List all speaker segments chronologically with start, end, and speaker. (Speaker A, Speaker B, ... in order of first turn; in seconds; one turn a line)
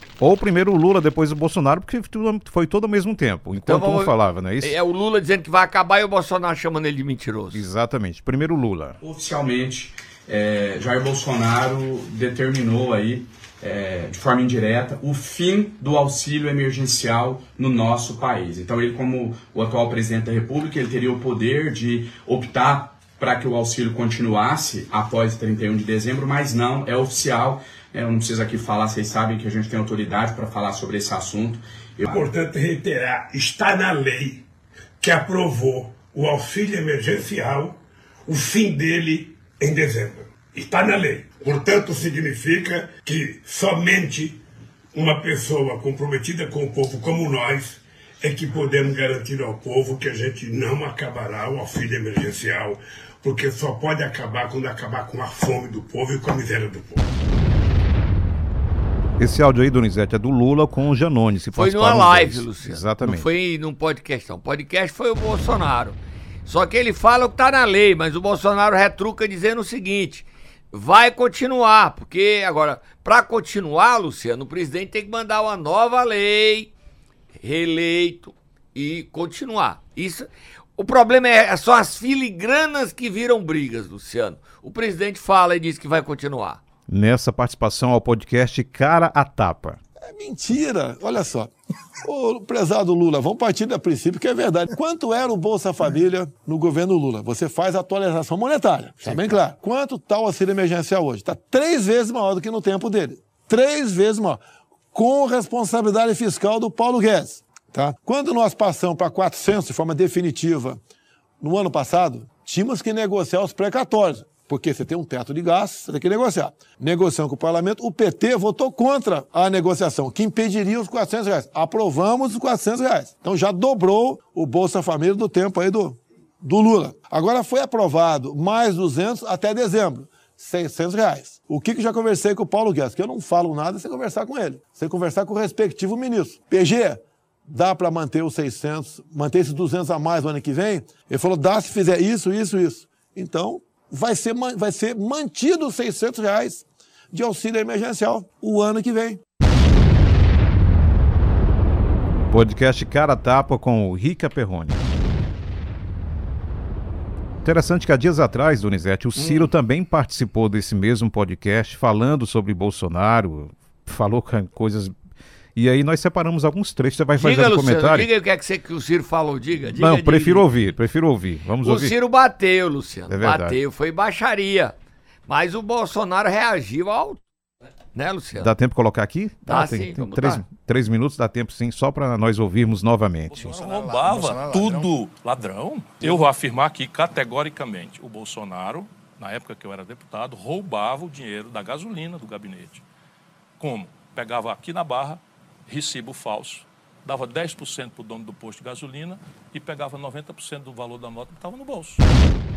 Speaker A: 0.2-4.8
Speaker B: 3.6-7.7
Speaker A: 7.5-9.0
Speaker C: 9.0-32.2
Speaker D: 32.0-34.4
Speaker D: 35.0-44.4
Speaker D: 44.9-57.0
Speaker A: 59.2-63.3
Speaker B: 61.5-76.7
Speaker B: 77.4-86.6
Speaker A: 86.9-89.8
Speaker E: 90.0-91.5
Speaker E: 92.0-104.4
Speaker A: 99.0-99.4
Speaker E: 104.9-110.8
Speaker E: 111.4-149.2
Speaker A: 152.3-154.8
Speaker A: 157.4-164.9
Speaker B: 159.2-159.5
Speaker A: 165.5-168.1
Speaker B: 167.2-170.4
Speaker A: 169.7-171.9
Speaker B: 171.6-174.7
Speaker A: 173.1-173.6
Speaker B: 175.3-177.2
Speaker B: 177.9-178.5
Speaker A: 178.4-183.6
Speaker B: 179.4-180.4
Speaker F: 183.3-192.8
Speaker F: 193.6-202.0